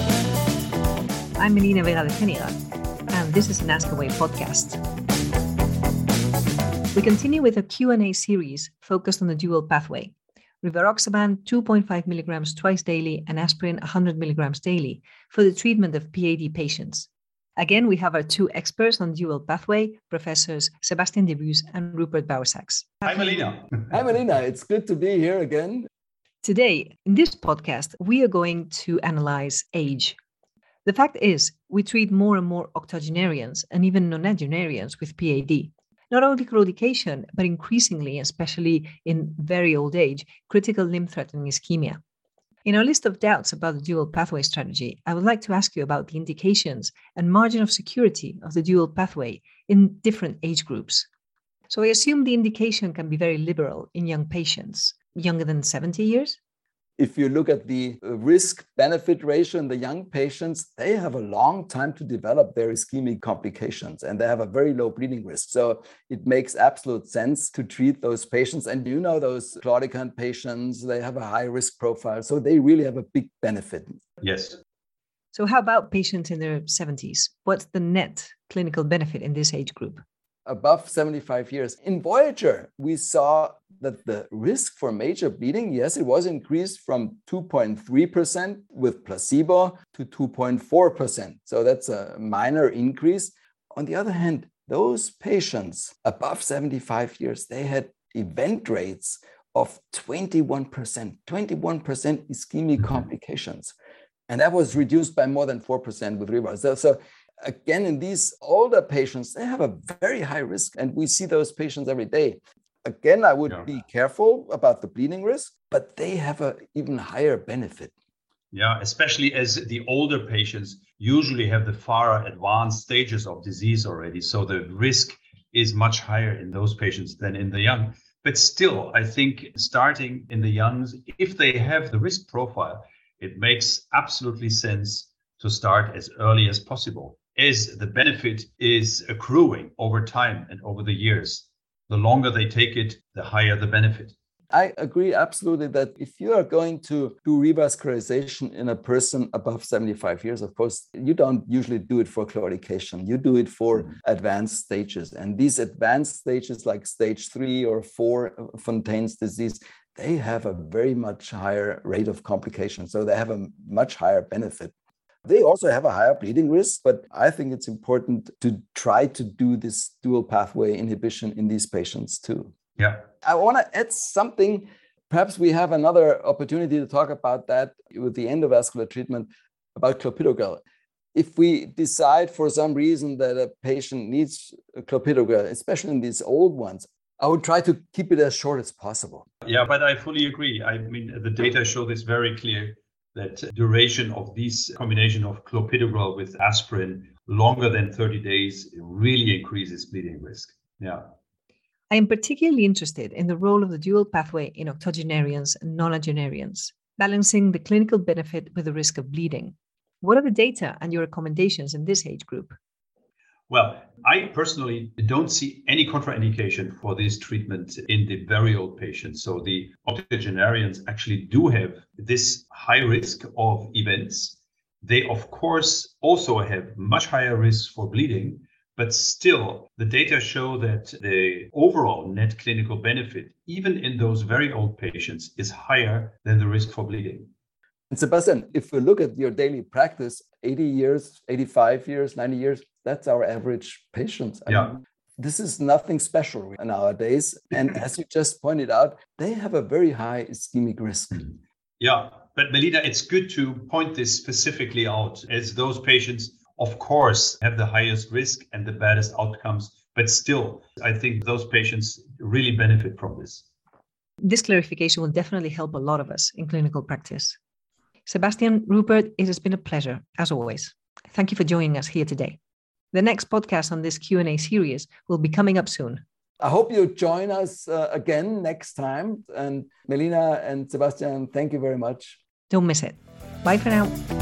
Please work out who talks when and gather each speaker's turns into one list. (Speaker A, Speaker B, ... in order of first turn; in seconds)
Speaker A: 1.4-2.6, 3.1-4.8, 6.9-23.5, 26.4-30.2, 30.8-42.0, 42.6-51.1, 51.7-56.4, 75.3-80.0, 201.9-212.6, 264.2-267.4, 268.1-272.4, 272.9-276.0, 282.5-283.9
Speaker B: 23.0-23.7, 74.2-74.6, 118.5-144.1, 172.8-173.1, 189.4-201.1, 213.5-237.3, 244.5-244.7, 251.8-263.4
Speaker C: 23.9-25.9, 57.0-74.0, 80.5-103.7, 104.3-117.9, 144.5-164.7, 165.2-172.5, 173.2-180.6, 181.1-189.2, 237.9-251.3, 276.4-282.2